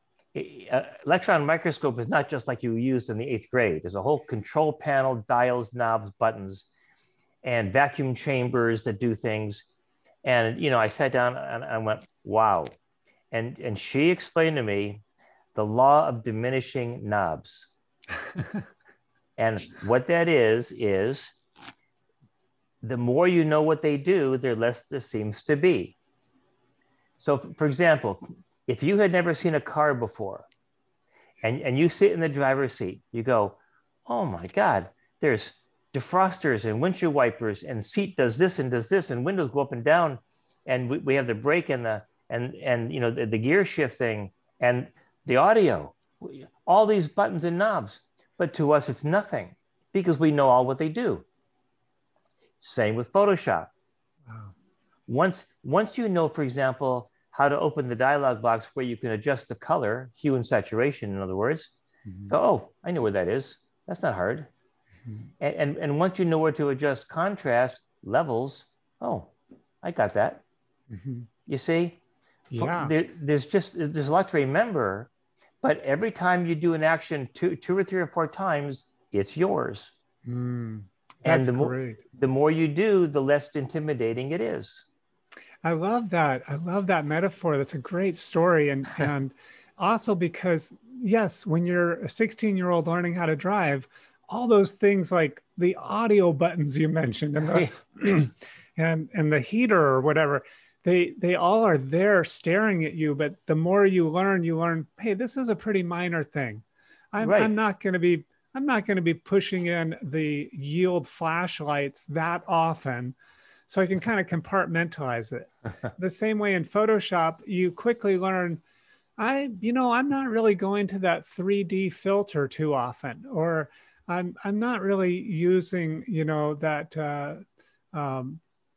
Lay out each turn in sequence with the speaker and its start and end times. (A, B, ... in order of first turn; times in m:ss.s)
0:00.3-0:06.7 A
0:07.4-0:09.6 A
0:10.2-0:12.7 A
0:13.3-0:15.0 A
0:15.5-0:17.7 A
0:19.4-0:21.3 A
0:22.8-0:26.0 A
0:27.2-0:30.5 A
0:31.4-0:51.2 A
0:52.6-0:53.7 A
0:54.3-0:54.5 B
0:55.1-1:01.7 A
1:02.1-1:02.3 B
1:02.3-1:04.5 A
1:05.4-1:09.3 A
1:09.8-1:10.4 A
1:10.9-1:11.3 B
1:11.5-1:12.0 A
1:12.5-1:12.9 B
1:12.5-1:15.1 A
1:15.6-1:19.9 A
1:20.2-1:22.0 B
1:21.2-1:24.8 A
1:25.6-1:53.2 B
1:47.2-1:47.5 A
1:53.7-1:58.6 B
1:59.2-2:08.4 B